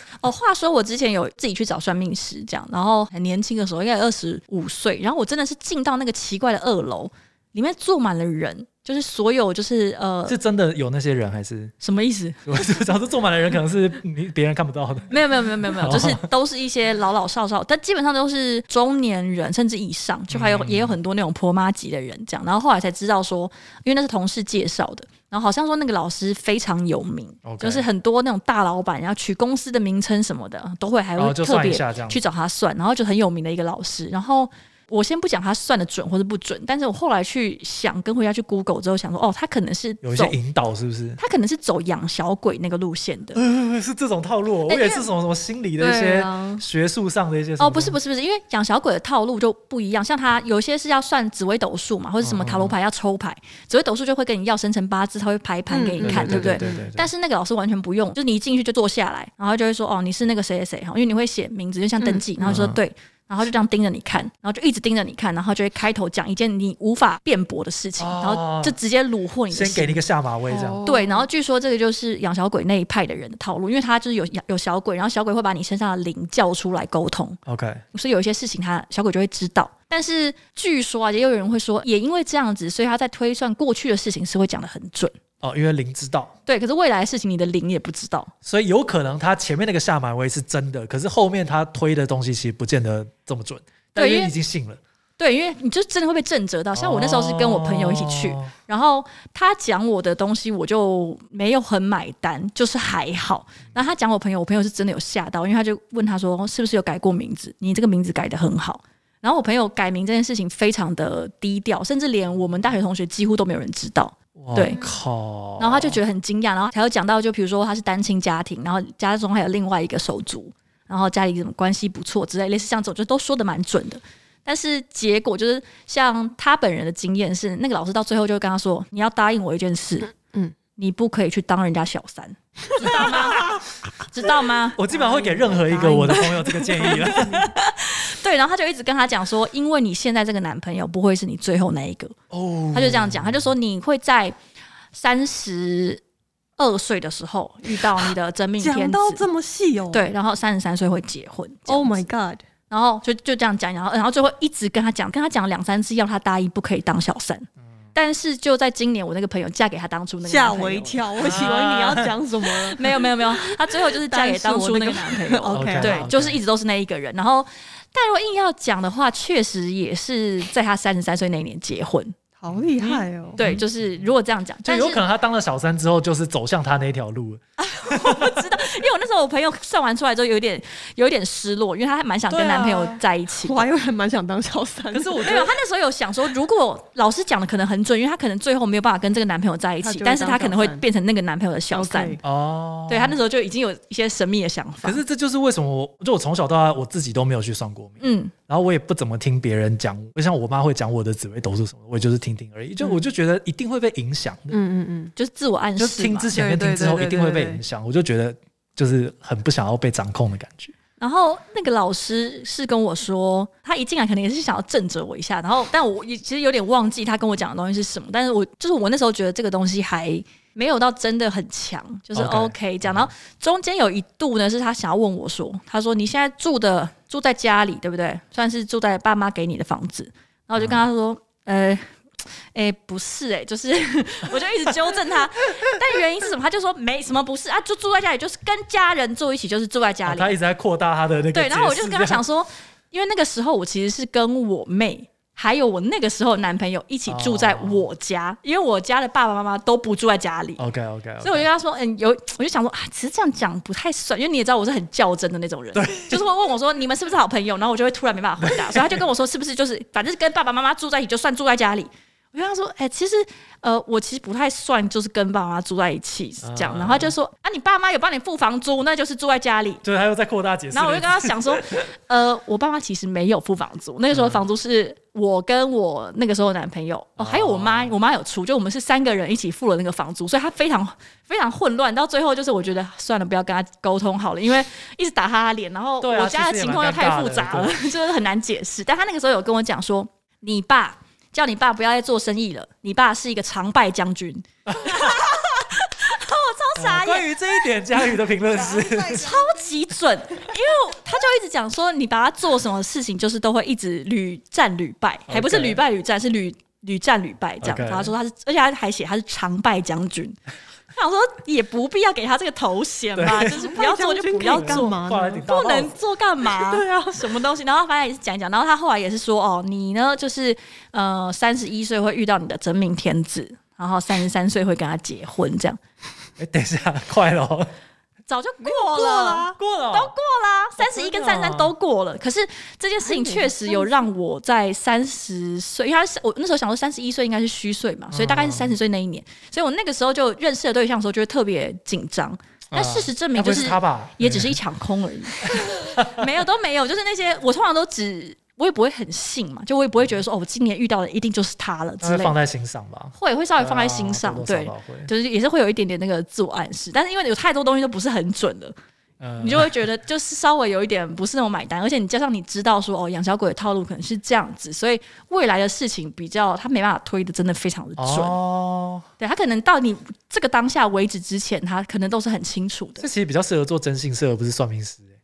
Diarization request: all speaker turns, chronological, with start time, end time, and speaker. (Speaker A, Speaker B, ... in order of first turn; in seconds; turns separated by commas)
Speaker A: 0.2-10.4, Speaker B: 10.3-11.7, Speaker A: 11.8-12.5, Speaker B: 12.5-16.2, Speaker A: 15.1-40.4, Speaker B: 20.3-20.9, Speaker B: 27.4-27.9, Speaker B: 31.2-32.2, Speaker B: 40.0-41.2, Speaker A: 41.2-43.4, Speaker B: 43.4-48.0, Speaker A: 44.7-45.1, Speaker C: 45.8-46.6, Speaker A: 47.6-70.0, Speaker B: 52.2-52.8, Speaker C: 55.7-56.9, Speaker B: 56.0-57.1, Speaker C: 62.0-62.6, Speaker B: 62.4-62.8, Speaker B: 68.0-68.8, Speaker B: 69.5-70.8, Speaker C: 70.5-71.3, Speaker A: 70.8-77.4, Speaker B: 77.5-77.8, Speaker A: 77.9-85.1, Speaker B: 85.4-86.3, Speaker A: 86.5-88.3, Speaker B: 88.4-94.8, Speaker A: 94.0-94.3, Speaker A: 95.2-114.8, Speaker B: 96.7-98.5, Speaker B: 114.4-116.0, Speaker A: 115.6-130.1, Speaker A: 130.8-134.8, Speaker C: 132.8-133.1, Speaker B: 132.8-133.6, Speaker B: 134.8-137.4, Speaker C: 134.9-137.4, Speaker A: 136.2-142.2, Speaker B: 142.3-143.5, Speaker A: 142.7-144.3, Speaker A: 144.9-146.0, Speaker A: 146.6-149.2, Speaker C: 148.6-150.1, Speaker A: 149.9-152.1, Speaker C: 151.7-152.4, Speaker A: 152.7-161.5, Speaker C: 160.2-166.1, Speaker B: 161.2-162.1, Speaker A: 162.8-172.2, Speaker B: 165.5-166.4, Speaker C: 172.4-173.4, Speaker B: 172.6-173.6, Speaker A: 172.8-175.0, Speaker B: 174.6-178.4, Speaker A: 177.6-183.7, Speaker B: 182.3-183.0, Speaker C: 183.4-185.3, Speaker B: 184.9-185.5, Speaker A: 185.2-192.2, Speaker C: 189.8-190.8, Speaker C: 191.7-192.2, Speaker B: 192.2-193.2, Speaker A: 192.9-195.0, Speaker B: 194.8-204.6, Speaker A: 198.0-198.3, Speaker C: 204.5-205.1, Speaker A: 205.2-206.3, Speaker B: 205.8-210.7, Speaker C: 206.3-207.6, Speaker A: 211.0-231.9, Speaker B: 222.1-223.1, Speaker B: 230.6-230.9, Speaker A: 232.5-240.3, Speaker B: 240.1-242.2, Speaker A: 241.3-250.6, Speaker B: 247.1-247.9, Speaker B: 250.6-251.5, Speaker A: 251.2-269.8, Speaker B: 255.7-256.3, Speaker B: 258.4-259.0, Speaker B: 266.4-267.1, Speaker B: 269.8-271.8, Speaker A: 270.7-297.7, Speaker B: 274.1-274.4, Speaker B: 277.2-277.9, Speaker B: 286.0-287.8, Speaker B: 294.7-295.2, Speaker B: 296.8-299.3, Speaker A: 299.0-310.4, Speaker B: 305.3-305.8, Speaker B: 307.6-308.1, Speaker A: 310.9-314.9, Speaker B: 313.2-313.7, Speaker C: 313.4-315.5, Speaker B: 314.5-315.9, Speaker A: 315.4-325.8, Speaker C: 316.4-317.3, Speaker B: 326.4-327.7, Speaker A: 328.3-352.4, Speaker B: 328.9-330.1, Speaker B: 330.8-331.7, Speaker C: 333.0-334.1, Speaker B: 338.1-338.8, Speaker B: 342.7-344.6, Speaker B: 345.5-346.3, Speaker B: 352.0-355.1, Speaker A: 353.2-358.8, Speaker B: 359.2-359.7, Speaker A: 359.4-368.4, Speaker B: 368.0-369.1, Speaker A: 369.2-373.1, Speaker B: 373.0-375.1